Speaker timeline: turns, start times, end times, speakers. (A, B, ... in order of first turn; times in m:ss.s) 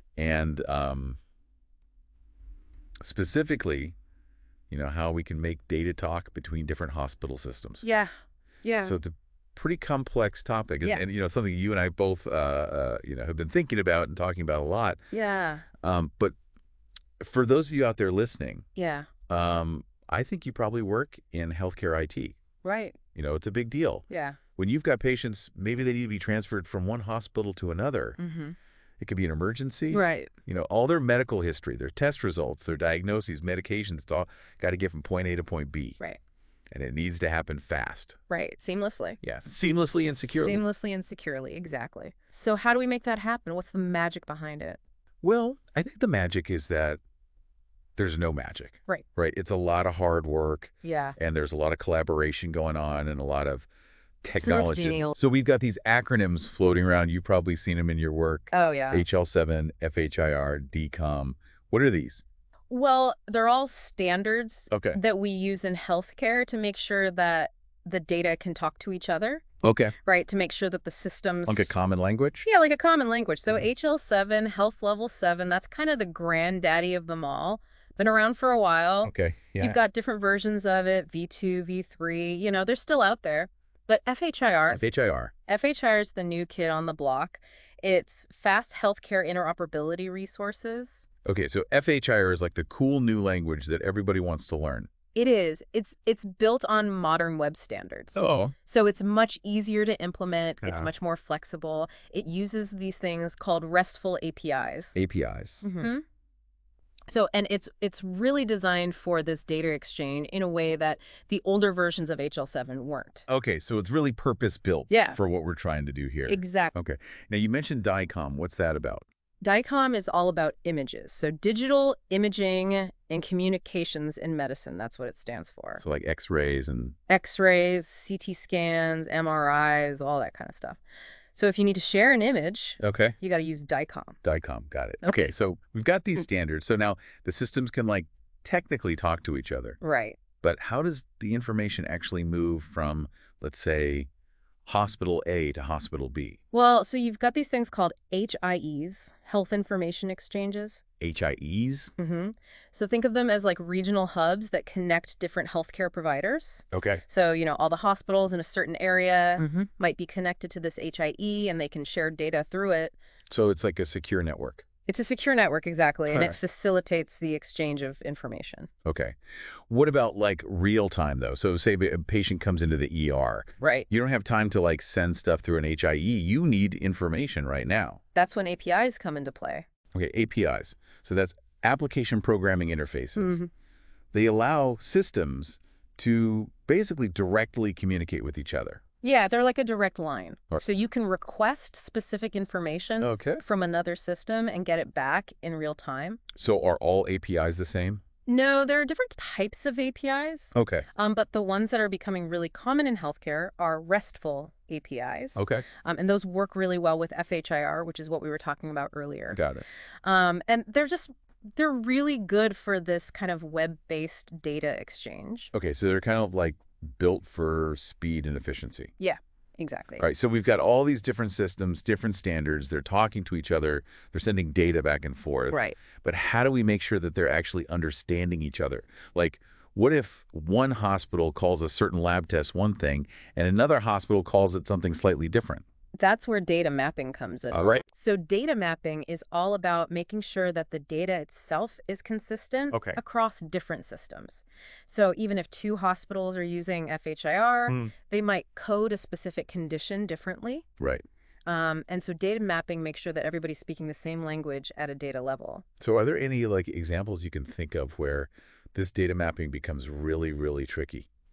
0:00.2-0:01.2 A
0:03.0-0:03.9 A
0:04.7-0:07.8 A
0:07.8-0:09.0 B
0:08.8-0:15.0 A
0:15.1-0:15.7 B
0:15.8-0:16.3 A
0:17.2-0:18.7 A
0:18.8-0:19.1 B
0:19.3-0:22.4 A
0:22.6-0:23.0 B
0:23.1-0:28.2 A
0:24.1-0:24.4 B
0:28.2-0:28.6 B
0:29.0-0:36.0 A
0:29.9-0:30.3 B
0:36.7-0:38.2 A
0:38.3-0:39.2 B
0:39.2-0:40.6 A
0:40.3-0:44.8 B
0:45.2-0:47.0 A
0:48.0-0:53.7 A
0:50.8-0:51.2 B
0:54.2-1:02.2 A
0:54.3-0:55.2 B
0:58.5-0:59.0 B
1:02.7-1:09.4 B
1:04.7-1:05.0 A
1:09.6-1:10.0 A
1:10.0-1:11.7 B
1:11.5-1:12.5 A
1:12.4-1:24.8 B
1:19.0-1:19.8 A
1:24.7-1:25.3 A
1:25.5-1:31.1 B
1:31.2-1:34.9 A
1:35.2-1:45.0 B
1:38.2-1:38.6 A
1:40.6-1:40.9 A
1:45.0-1:45.9 A
1:45.6-1:46.0 B
1:47.1-1:53.3 B
1:53.3-1:59.1 A
1:54.9-1:55.2 B
1:56.3-1:56.7 B
1:59.4-2:05.8 B
2:05.8-2:07.0 A
2:07.1-2:10.8 B
2:11.3-2:14.2 B
2:12.8-2:13.2 A
2:14.2-2:19.8 A
2:19.8-2:20.2 B
2:20.4-2:24.1 A
2:24.7-2:26.4 A
2:26.5-2:30.8 B
2:31.0-2:31.9 A
2:32.0-2:42.9 B
2:36.7-2:37.0 A
2:39.4-2:39.7 A
2:43.3-2:44.6 A
2:44.9-2:48.7 B
2:46.1-2:46.4 A
2:48.8-2:58.0 A
2:53.6-2:53.9 B
2:58.2-2:59.7 B
2:59.9-3:03.4 A
3:03.2-3:03.5 B
3:04.1-3:08.8 A
3:09.0-3:16.2 B
3:13.0-3:13.4 A
3:16.3-3:18.0 A
3:18.3-3:29.4 B
3:20.6-3:20.9 A
3:25.4-3:25.7 A
3:29.3-3:29.6 A
3:30.0-3:35.5 B
3:35.5-3:38.9 A
3:39.0-3:40.1 B
3:40.0-3:55.6 A
3:45.5-3:45.8 B
3:56.0-4:10.7 B
3:57.5-3:57.8 A
4:02.7-4:03.0 A
4:07.7-4:07.9 A
4:10.8-4:11.0 A
4:11.5-4:15.6 B
4:15.8-4:21.1 A